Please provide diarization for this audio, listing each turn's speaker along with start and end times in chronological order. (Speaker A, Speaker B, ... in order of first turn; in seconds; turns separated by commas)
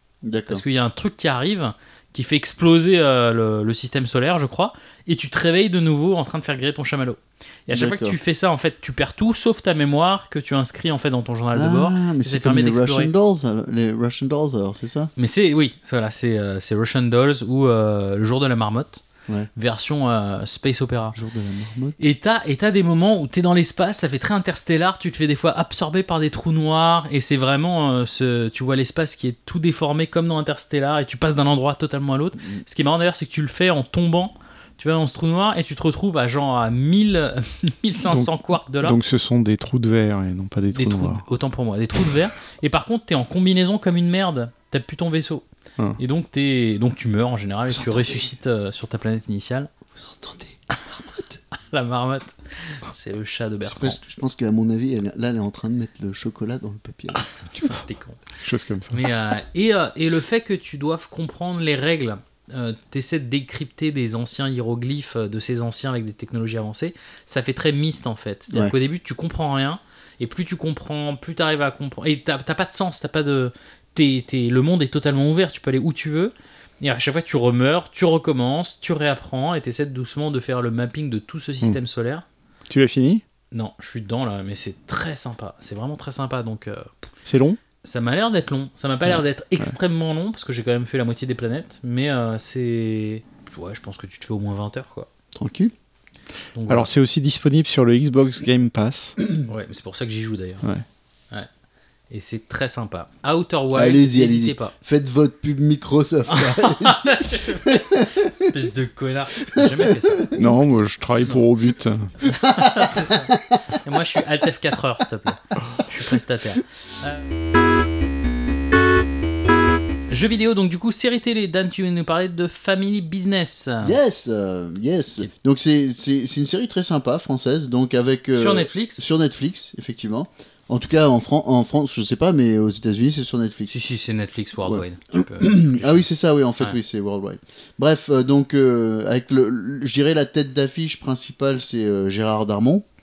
Speaker A: 0.2-0.6, Speaker B: 0.5-13.1, Speaker A: 7.7-8.2, Speaker A: 11.5-15.1, Speaker B: 15.2-19.0, Speaker B: 19.5-21.1, Speaker A: 21.1-22.0, Speaker B: 22.0-39.0, Speaker C: 38.1-41.2, Speaker B: 40.7-45.4, Speaker B: 46.0-49.7, Speaker A: 47.7-48.3, Speaker A: 50.0-50.5, Speaker B: 51.7-54.0, Speaker A: 53.6-57.3, Speaker B: 57.5-58.2, Speaker C: 58.4-59.0, Speaker B: 58.9-82.2, Speaker C: 82.7-83.2, Speaker B: 83.5-86.9, Speaker C: 87.2-87.6, Speaker B: 87.8-95.1, Speaker C: 89.0-89.7, Speaker A: 95.3-95.7, Speaker B: 96.5-96.9, Speaker C: 96.7-99.2, Speaker B: 99.5-100.6, Speaker B: 102.1-104.7, Speaker A: 103.7-108.3, Speaker B: 106.3-110.3, Speaker A: 109.5-110.5, Speaker C: 110.4-112.1, Speaker B: 112.2-117.2, Speaker A: 112.4-113.6, Speaker B: 120.1-123.9, Speaker A: 123.8-133.7, Speaker B: 128.3-129.0, Speaker B: 133.7-136.1, Speaker A: 134.6-142.8